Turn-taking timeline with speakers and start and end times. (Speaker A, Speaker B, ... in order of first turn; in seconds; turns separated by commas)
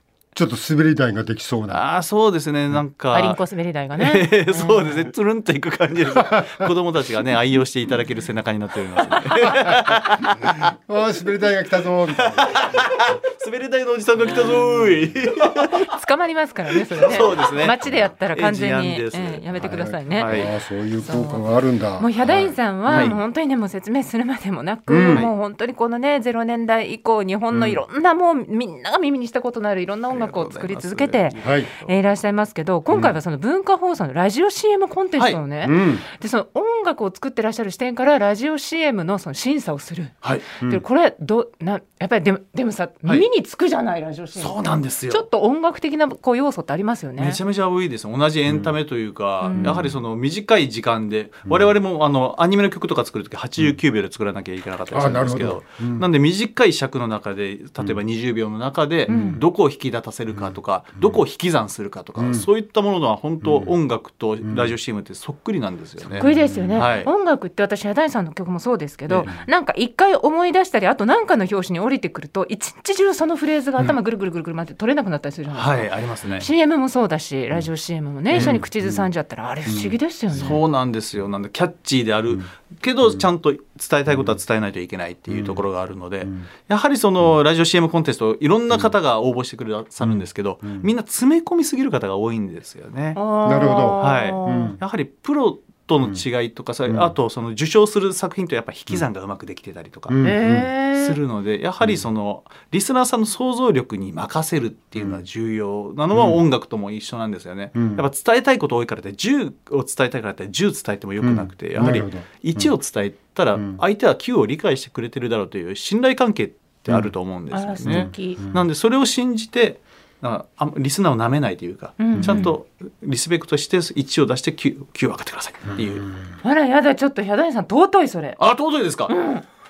Speaker A: 0.3-1.8, Speaker B: 1.7-3.4, Speaker C: 3.1-5.1, Speaker B: 4.0-10.7, Speaker A: 6.3-6.7, Speaker A: 10.7-12.8, Speaker B: 12.1-15.9, Speaker C: 15.8-20.3, Speaker B: 16.9-17.8, Speaker B: 18.3-20.5, Speaker A: 19.6-23.2, Speaker C: 21.0-21.4, Speaker C: 22.0-47.4, Speaker B: 22.9-23.2, Speaker A: 24.9-25.3, Speaker A: 27.5-27.8, Speaker B: 30.1-31.9, Speaker A: 31.4-31.7, Speaker A: 32.9-33.1, Speaker A: 35.6-36.0, Speaker B: 44.4-45.2, Speaker B: 47.2-67.1, Speaker A: 48.5-48.7, Speaker C: 49.4-49.9, Speaker A: 49.6-49.9, Speaker A: 54.9-56.1, Speaker C: 59.1-59.4, Speaker A: 59.1-59.4, Speaker A: 60.3-61.2, Speaker A: 62.2-62.5, Speaker A: 63.4-63.7, Speaker A: 64.4-64.7, Speaker A: 66.1-66.9, Speaker C: 66.2-80.6, Speaker B: 75.5-76.5, Speaker B: 78.3-78.6, Speaker A: 78.3-79.1, Speaker A: 79.7-80.6, Speaker B: 80.3-93.2, Speaker A: 85.3-85.6, Speaker A: 90.0-90.9, Speaker C: 93.2-94.8, Speaker A: 93.4-94.8, Speaker B: 94.0-100.3, Speaker A: 100.1-100.7, Speaker C: 100.2-101.2, Speaker B: 100.9-126.0, Speaker A: 106.1-106.4, Speaker A: 107.7-108.0, Speaker A: 111.2-112.7, Speaker C: 117.5-118.4, Speaker A: 117.8-118.6, Speaker C: 122.0-122.5, Speaker A: 122.1-122.5, Speaker A: 125.7-126.3, Speaker C: 126.4-128.4, Speaker B: 128.4-129.1, Speaker C: 129.1-129.4